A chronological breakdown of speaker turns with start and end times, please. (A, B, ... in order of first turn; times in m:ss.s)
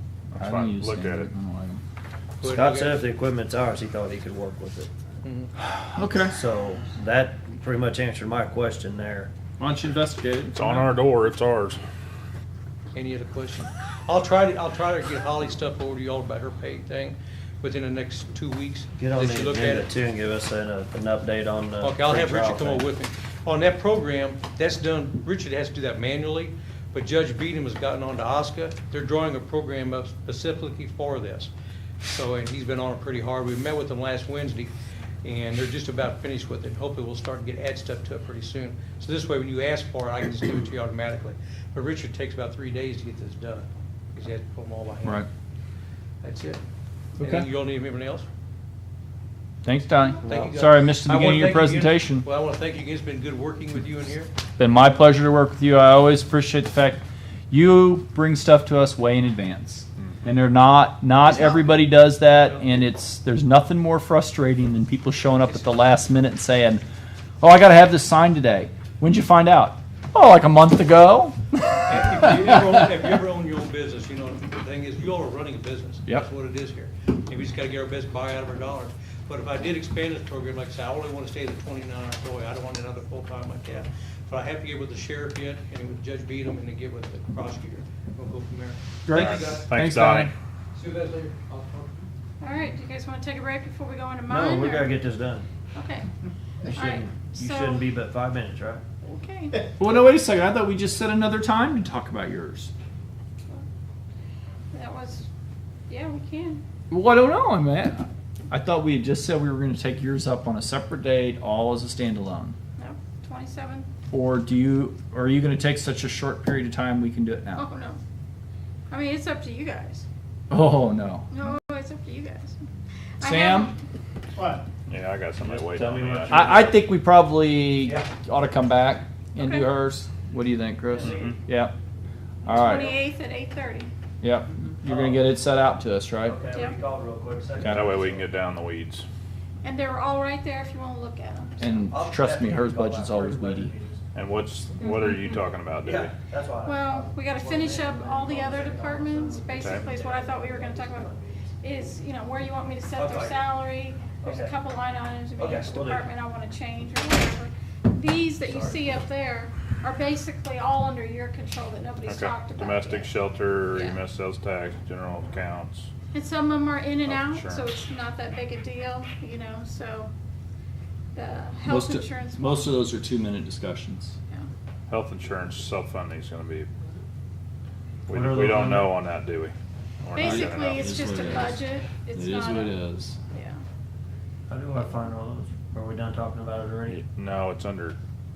0:00.3-0:01.3 A
0:00.4-0:01.8 B
0:02.4-0:03.0 C
0:02.4-0:04.9 D
0:05.2-0:05.5 C
0:05.7-0:06.4 B
0:06.3-0:09.3 D
0:09.6-0:10.8 B
0:10.5-0:11.8 A
0:12.9-0:19.9 C
0:19.0-0:22.9 D
0:21.8-0:31.5 C
0:32.0-0:34.7 C
0:35.2-0:45.3 C
0:46.2-0:46.6 C
0:47.2-0:47.4 B
0:47.2-0:48.2 C
0:49.6-0:52.2 B
0:50.2-0:54.3 C
0:54.6-1:06.8 B
1:07.4-1:11.4 B
1:11.8-1:29.7 C
1:29.0-1:30.3 B
1:29.1-1:30.3 A
1:30.7-1:32.1 C
1:32.4-1:35.0 E
1:34.3-1:35.5 D
1:35.7-1:36.0 E
1:36.6-1:38.8 D
1:36.7-1:37.9 E
1:39.0-1:39.6 E
1:39.8-1:42.7 B
1:44.7-1:45.3 E
1:45.9-1:46.6 E
1:46.9-1:52.6 B
1:52.8-1:53.9 E
1:54.1-1:57.6 B
1:57.5-1:58.0 E
1:58.9-2:00.0 E
2:00.5-2:01.3 B
2:01.3-2:02.6 E
2:03.2-2:03.7 E
2:03.2-2:03.7 B
2:04.9-2:06.7 A
2:05.4-2:06.8 D
2:06.3-2:11.7 B
2:07.8-2:08.1 D
2:09.4-2:09.7 E
2:10.9-2:11.3 D
2:11.0-2:11.4 A
2:12.4-2:13.0 B
2:12.5-2:13.9 E
2:14.2-2:16.4 B
2:14.8-2:15.3 D
2:16.2-2:18.3 D
2:17.6-2:17.9 B
2:17.6-2:19.0 A
2:19.6-2:21.8 E
2:21.6-2:23.7 B
2:21.9-2:24.0 D
2:24.1-2:26.2 A
2:25.8-2:31.5 D
2:26.6-2:43.1 E
2:29.6-2:30.0 A
2:32.9-2:33.5 D
2:34.2-2:34.5 D
2:35.4-2:36.0 D
2:38.5-2:38.8 D
2:42.0-2:45.9 A
2:46.1-2:50.1 E
2:47.0-2:47.7 A
2:51.1-2:52.9 E
2:51.6-2:54.2 B
2:54.9-2:56.7 A
2:58.1-3:00.9 A
2:58.1-2:59.0 D
3:00.1-3:03.6 E
3:00.2-3:01.6 B
3:02.1-3:03.2 B
3:04.5-3:07.0 D
3:06.9-3:08.0 A